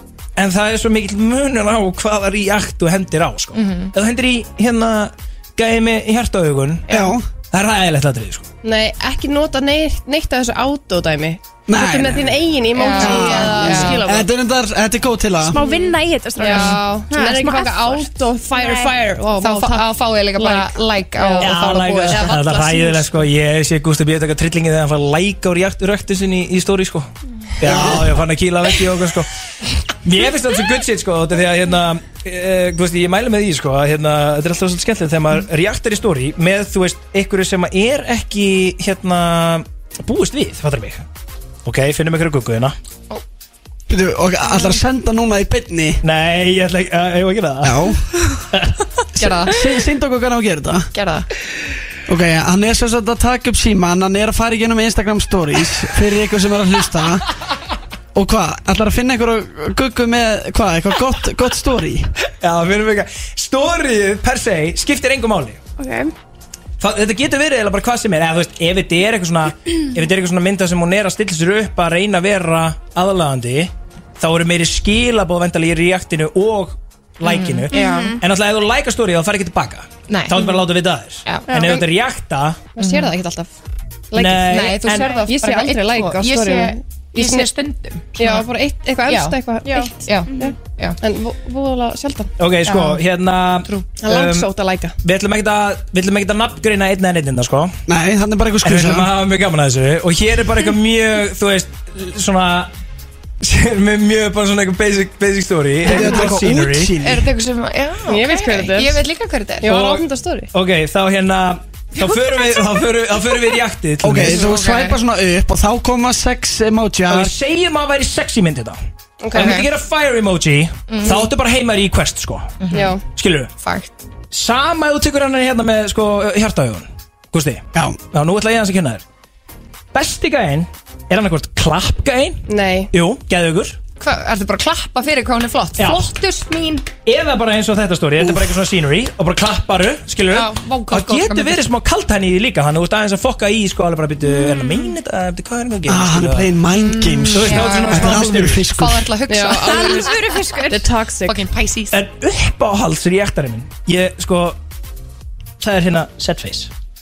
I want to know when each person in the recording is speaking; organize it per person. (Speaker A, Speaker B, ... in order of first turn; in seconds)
Speaker A: 0.4-6.9, 7.5-8.5, 21.4-27.1, 27.6-29.3, 30.0-41.0, 41.6-42.8, 46.0-48.8, 62.4-65.6, 66.8-82.6, 84.1-85.2, 92.4-94.5, 95.0-97.7, 98.7-102.7, 103.4-107.0, 109.7-114.4, 117.1-118.8, 119.3-123.5, 124.3-129.0, 129.9-133.8, 135.8-136.1, 137.1-146.5, 147.3-148.7, 151.9-154.6, 155.6-156.7
Speaker B: 3.5-3.9, 6.9-7.2, 12.7-14.1, 17.6-18.1, 19.3-22.4, 44.5-44.8, 49.2-49.6, 50.9-51.3, 77.2-78.2, 80.1-80.6, 81.2-81.6, 82.8-83.2, 84.4-88.5, 89.1-89.4, 90.0-91.0, 92.6-93.0, 93.6-93.9, 107.0-109.8, 114.3-115.0, 119.3-119.7, 120.9-121.3, 122.6-123.0, 123.6-123.9, 134.0-136.8, 140.3-141.7, 146.7-152.0
Speaker C: 6.9-7.2, 11.7-12.4, 13.0-15.6, 27.6-28.1, 43.9-46.0, 47.6-48.0, 49.2-50.9, 52.1-57.3, 58.1-62.1, 97.9-99.1, 105.8-107.2, 114.0-117.3, 138.2-138.5, 145.9-149.1
Speaker D: 8.6-14.3, 15.6-23.1, 82.8-83.5, 84.1-87.5, 88.2-92.3, 94.0-95.0, 108.1-109.0, 109.6-110.5, 119.2-119.5, 122.8-123.0, 132.5-132.9, 149.3-150.0, 150.7-151.4
Speaker E: 15.5-19.0, 65.8-66.1, 77.7-78.2, 81.5-81.8, 89.7-90.5, 136.1-136.8, 144.3-144.8, 149.5-150.9